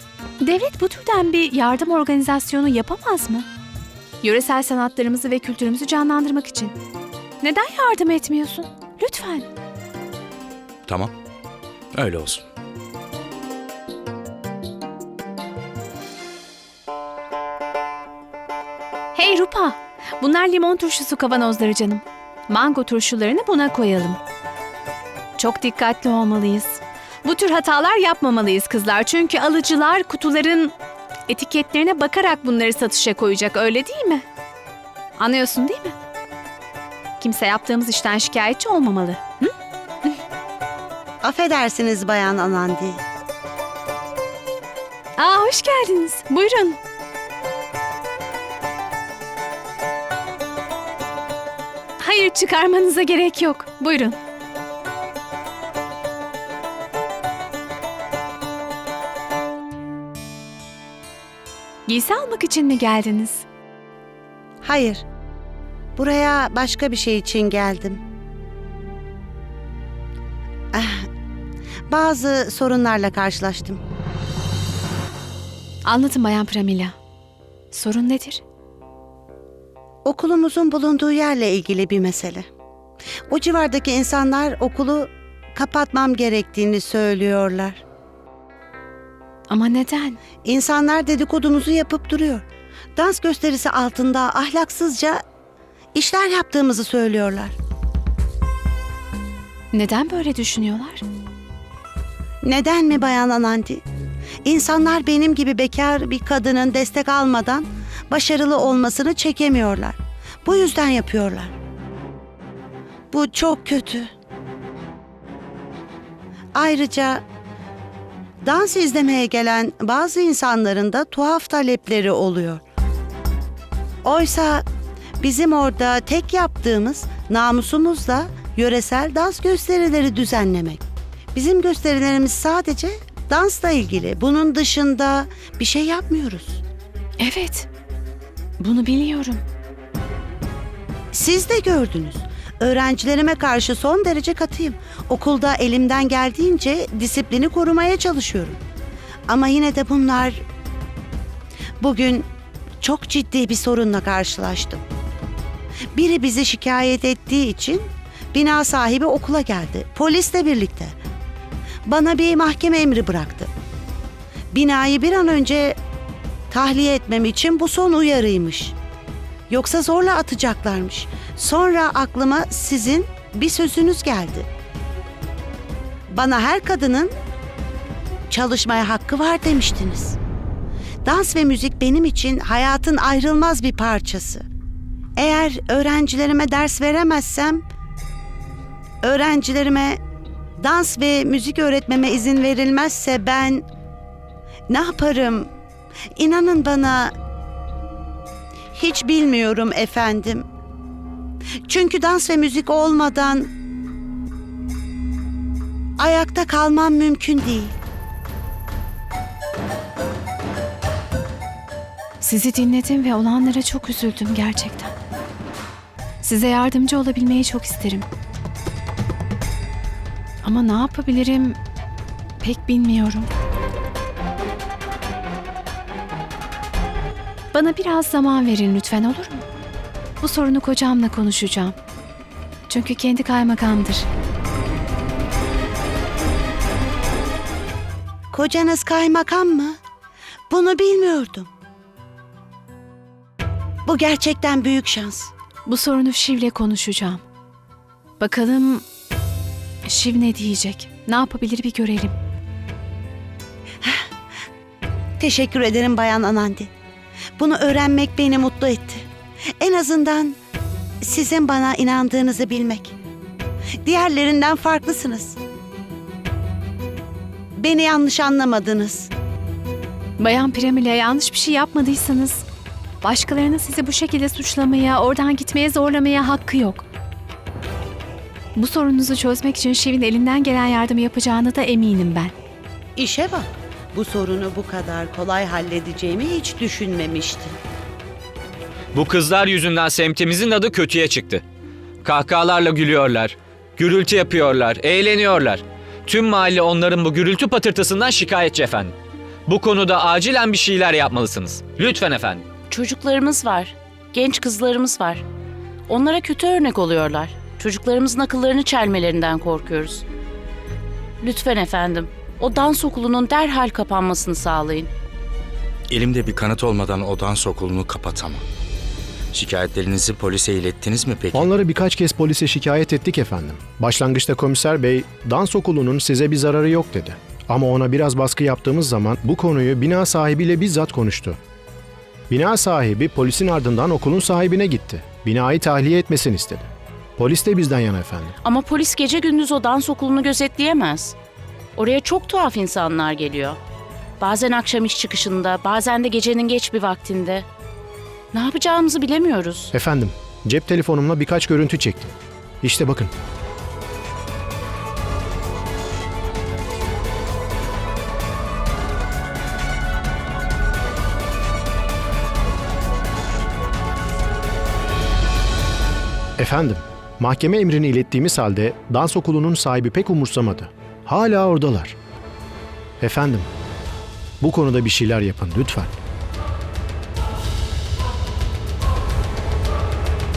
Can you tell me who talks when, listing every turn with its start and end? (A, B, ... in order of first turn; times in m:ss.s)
0:00.4-0:03.5 A
0:04.2-0:06.8 A
0:07.4-0:09.5 A
0:10.9-0:11.1 B
0:11.9-0:12.5 B
0:19.2-0:24.2 A
0:25.4-0:30.7 A
0:31.3-0:34.2 A
0:35.2-0:36.0 A
0:37.2-0:39.5 A
0:41.2-0:43.0 C
0:45.2-0:46.8 A
0:52.0-0:54.2 A
1:01.9-1:03.5 A
1:04.6-1:05.0 C
1:06.0-1:08.0 C
1:10.7-1:11.1 C
1:11.9-1:13.8 C
1:15.8-1:17.0 A
1:17.7-1:18.4 A
1:20.0-1:22.5 C
1:23.3-1:27.8 C
1:29.5-1:30.2 A
1:30.4-1:32.4 C
1:33.0-1:35.2 C
1:36.0-1:37.6 C
1:39.7-1:41.0 A
1:42.4-1:43.8 C
1:44.4-1:51.6 C
1:53.1-1:54.1 C
1:56.5-1:57.2 C
1:58.4-2:02.6 C
2:04.0-2:04.6 C
2:05.2-2:10.8 C
2:11.3-2:16.6 C
2:17.2-2:17.7 A
2:18.6-2:19.4 A
2:21.1-2:28.6 C
2:29.3-2:30.4 C
2:31.8-2:32.3 C
2:32.8-2:34.8 C
2:36.0-2:41.0 C
2:41.9-2:43.5 C
2:44.5-2:45.8 C
2:46.5-2:48.8 C
2:49.5-2:54.5 C
2:56.1-2:57.1 C
2:58.3-3:00.2 C
3:01.0-3:04.4 C
3:05.2-3:07.6 C
3:09.0-3:10.0 C
3:10.6-3:13.6 C
3:14.7-3:15.5 C
3:16.2-3:17.1 C
3:18.7-3:20.5 C
3:21.7-3:23.5 C
3:26.0-3:27.8 C
3:32.2-3:34.9 A
3:36.2-3:38.1 A
3:40.4-3:41.6 A
3:42.4-3:43.3 A
3:47.5-3:49.5 A
3:50.2-3:51.8 A
3:52.7-3:54.1 A
3:58.3-3:59.8 C
4:00.5-4:01.5 C
4:03.9-4:05.3 C
4:05.7-4:07.2 A
4:08.2-4:08.8 A
4:09.8-4:12.2 A
4:13.8-4:14.1 C
4:15.2-4:16.7 C
4:17.4-4:19.1 C
4:19.6-4:20.4 C
4:21.0-4:23.0 C
4:23.8-4:25.4 C
4:27.6-4:29.1 C
4:30.2-4:32.4 A
4:33.0-4:36.9 A
4:38.6-4:42.3 A
4:43.0-4:47.6 C
4:48.9-4:51.4 D
4:52.0-4:58.9 D
4:59.5-5:02.5 D
5:02.7-5:05.2 E
5:05.9-5:10.0 E
5:11.2-5:14.9 E
5:15.9-5:18.4 B
5:19.3-5:21.5 B
5:21.3-5:31.4 F
5:32.3-5:38.4 F
5:38.4-5:41.2 E
5:41.8-5:43.6 E
5:44.2-5:47.5 E
5:48.3-5:49.7 E
5:49.7-5:53.1 F
6:06.4-6:12.0 F
6:13.0-6:13.5 F
6:14.4-6:16.0 F